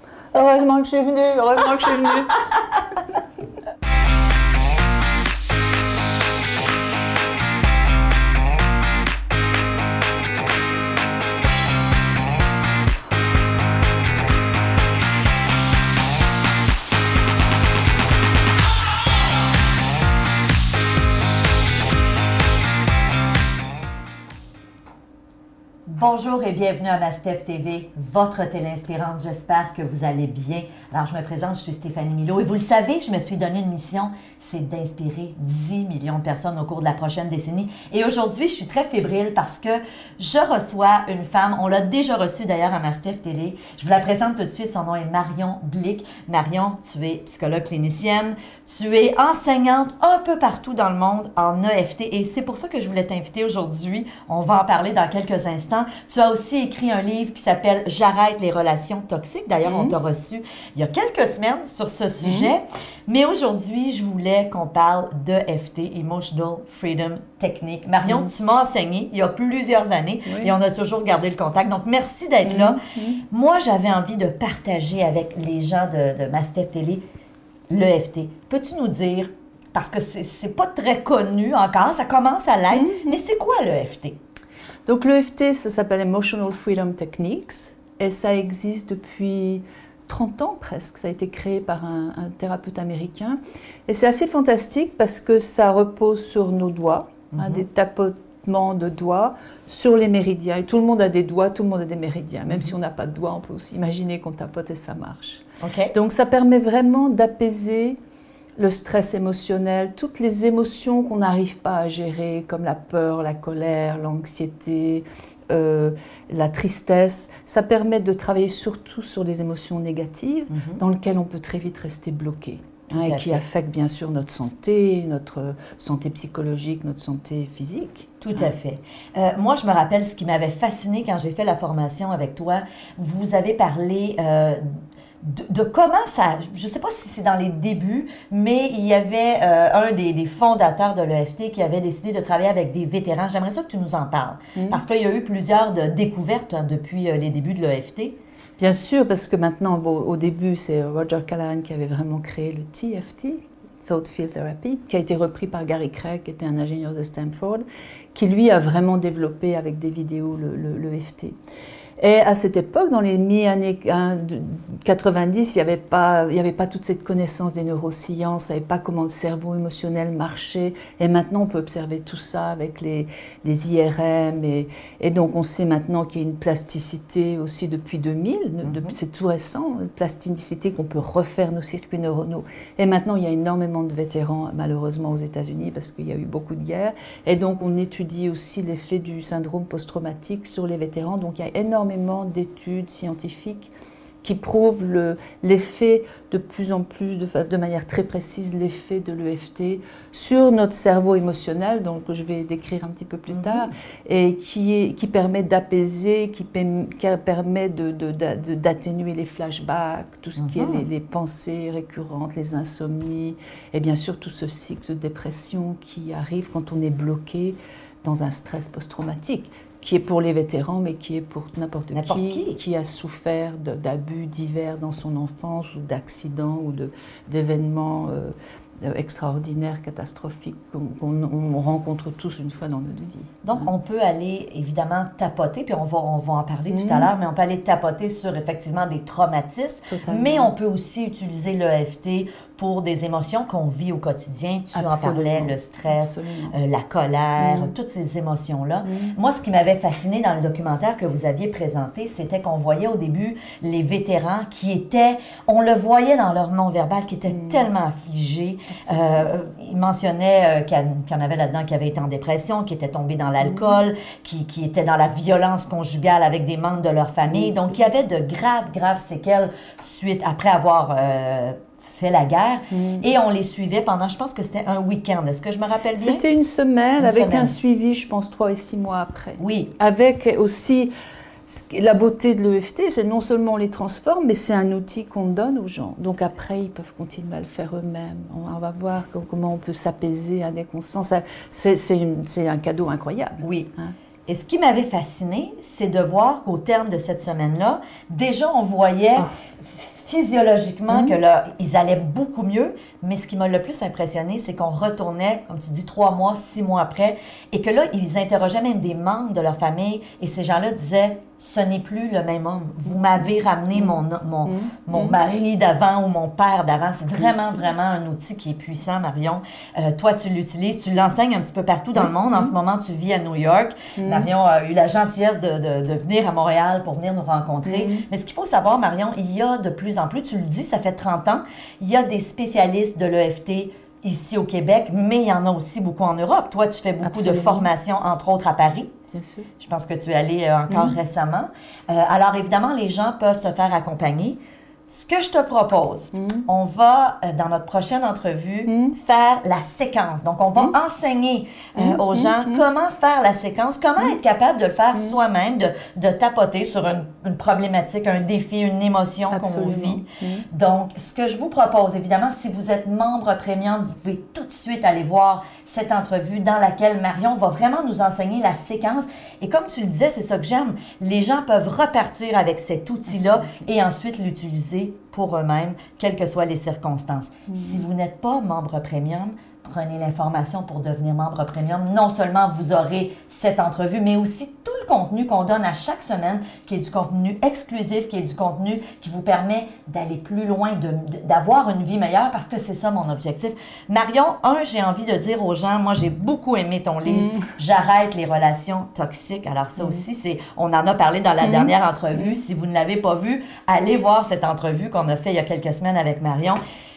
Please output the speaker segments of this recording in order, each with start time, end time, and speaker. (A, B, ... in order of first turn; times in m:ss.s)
0:00.3-0:02.5 A
0:25.9-1:17.0 B
0:59.6-0:59.9 A
1:02.2-1:02.5 A
1:10.3-1:10.5 A
1:12.4-1:13.2 A
1:17.7-1:24.2 B
1:22.7-1:23.2 A
1:24.9-1:48.0 A
1:37.3-1:37.6 B
1:45.6-1:45.9 B
1:48.6-2:08.4 A
2:00.5-2:00.8 B
2:02.9-2:03.4 B
2:08.2-2:14.6 B
2:15.2-2:28.2 B
2:24.6-2:24.8 A
2:28.6-2:41.4 A
2:42.0-3:53.7 A
2:58.6-2:59.0 B
3:23.3-3:23.7 B
3:30.4-3:30.8 B
3:41.9-3:42.6 B
3:53.4-4:36.2 B
3:56.7-3:57.1 A
3:59.9-4:00.5 A
4:04.7-4:06.6 A
4:07.4-4:07.7 A
4:08.8-4:09.2 A
4:17.3-4:17.7 A
4:18.7-4:19.3 A
4:27.3-4:27.8 A
4:32.7-4:33.1 A
4:36.0-4:40.9 A
4:37.0-4:37.6 B
4:39.4-4:39.7 B
4:41.5-4:53.9 A
4:53.4-4:53.7 B
4:54.3-5:38.9 B
5:00.9-5:01.2 A
5:13.7-5:15.2 A
5:22.0-5:22.5 A
5:24.0-5:24.3 A
5:27.6-5:28.0 A
5:37.0-5:37.7 A
5:39.1-5:39.5 A
5:39.6-6:46.6 B
5:40.7-5:41.0 A
5:46.1-5:46.4 A
5:48.7-5:49.0 A
5:51.8-5:52.6 A
5:59.3-6:00.5 A
6:13.1-6:13.7 A
6:17.5-6:17.8 A
6:37.1-6:37.4 A
6:41.4-6:42.3 A